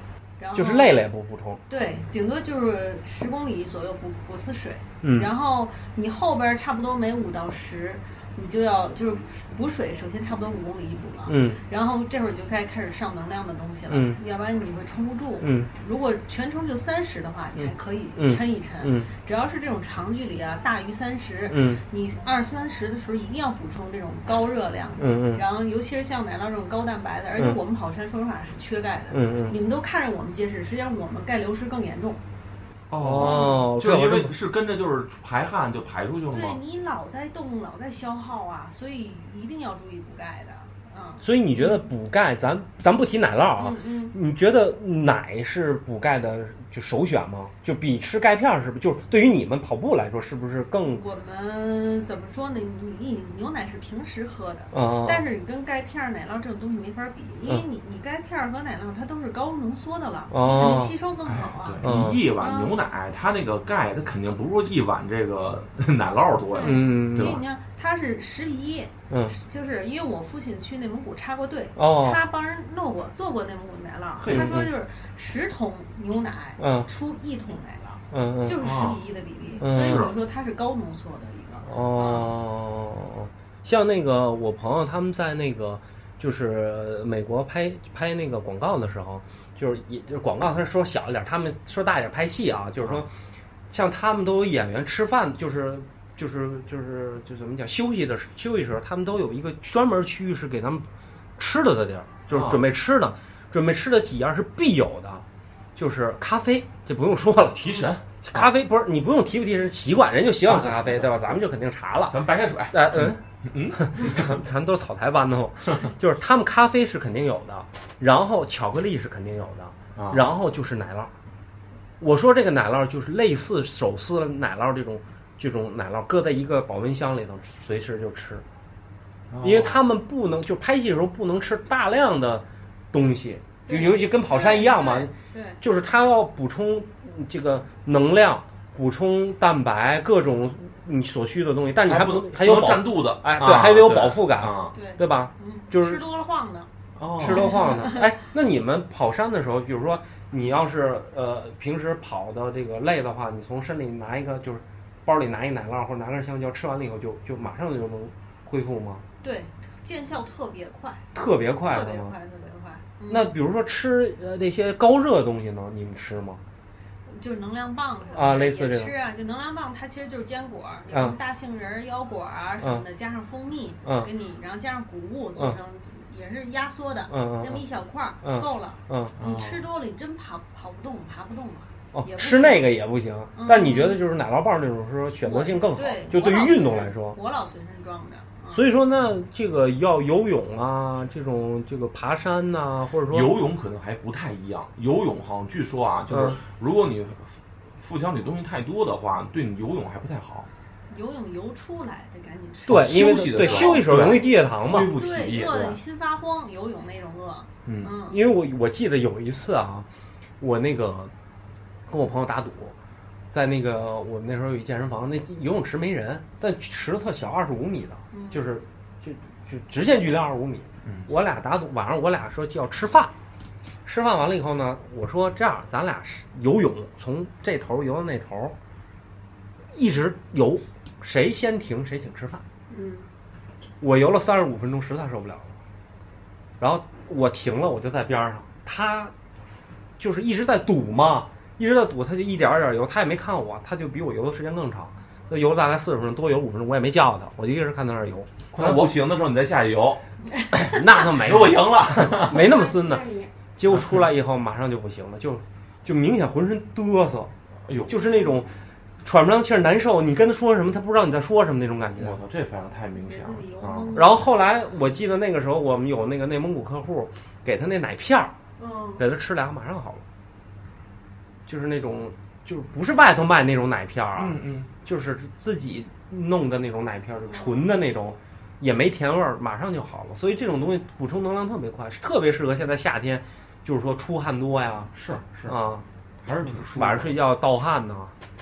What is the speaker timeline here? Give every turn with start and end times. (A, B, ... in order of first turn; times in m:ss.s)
0:00.4-0:01.0 A
0:00.6-0:01.6 B
0:01.7-0:32.2 A
0:05.0-0:05.3 B
0:11.3-0:11.6 B
0:13.9-0:14.2 B
0:15.4-0:15.7 B
0:17.6-0:19.1 B
0:21.5-0:21.8 B
0:25.0-0:25.4 B
0:29.1-0:29.6 B
0:32.9-0:36.6 C
0:33.0-0:34.4 B
0:33.2-0:33.6 A
0:36.3-0:41.8 A
0:41.2-0:51.0 B
0:43.6-0:44.2 A
0:50.9-1:01.9 A
0:54.7-0:55.2 B
1:00.3-1:01.0 B
1:01.3-1:07.4 C
1:01.8-1:02.2 B
1:02.4-1:02.8 A
1:06.5-1:22.1 A
1:06.6-1:07.4 B
1:09.1-1:09.4 B
1:11.8-1:12.2 B
1:14.2-1:14.7 C
1:14.3-1:14.7 B
1:16.6-1:16.9 B
1:18.1-1:18.6 B
1:18.6-1:19.0 C
1:19.6-1:20.0 B
1:19.7-1:20.2 C
1:21.6-1:33.1 B
1:33.7-1:40.9 B
1:41.4-1:45.2 B
1:42.3-1:42.6 C
1:45.8-1:53.2 B
1:47.5-1:48.5 C
1:50.5-1:51.4 C
1:52.1-1:54.4 C
1:53.7-2:01.1 B
2:00.0-2:00.3 C
2:02.0-2:08.4 B
2:09.3-2:09.8 C
2:09.4-2:26.0 B
2:13.7-2:15.6 A
2:21.8-2:24.7 C
2:24.7-2:26.7 A
2:27.0-2:27.6 C
2:27.2-2:39.0 B
2:27.3-2:28.1 A
2:39.2-2:41.1 A
2:41.1-2:42.1 B
2:41.6-2:43.3 A
2:43.1-2:46.4 B
2:47.1-3:02.7 A
2:48.2-2:48.9 B
2:50.9-2:51.2 B
2:53.8-2:54.1 B
2:57.1-2:57.6 B
2:58.2-2:59.2 B
2:59.2-2:59.7 C
3:01.9-3:07.2 B
3:03.4-3:04.0 A
3:05.2-3:08.7 A
3:08.5-3:13.3 B
3:13.1-3:20.5 C
3:16.1-3:16.4 B
3:20.9-3:23.8 A
3:22.7-3:24.9 B
3:22.7-3:25.8 C
3:24.9-3:28.2 A
3:27.7-3:27.9 C
3:28.1-3:29.9 B
3:30.4-3:31.1 B
3:31.9-3:32.8 B
3:33.3-3:43.1 B
3:38.1-3:38.5 A
3:43.9-3:48.6 B
3:49.7-3:52.4 B
3:52.7-3:53.1 D
3:53.8-3:55.6 B
3:56.6-3:59.1 B
4:00.0-4:08.9 B
4:08.5-4:10.0 C
4:10.6-4:12.5 C
4:10.7-4:17.3 B
4:12.3-4:13.3 D
4:13.7-4:14.0 C
4:17.7-4:18.2 C
4:17.9-4:18.5 B
4:19.0-4:22.2 B
4:22.0-4:24.0 C
4:23.0-4:24.3 A
4:24.0-4:28.3 B
4:28.6-4:29.0 D
4:29.0-4:30.0 B
4:31.5-4:44.9 B
4:34.2-4:34.7 C
4:44.9-4:45.6 C
4:45.5-4:45.8 B
4:46.2-4:47.2 C
4:46.4-4:48.1 B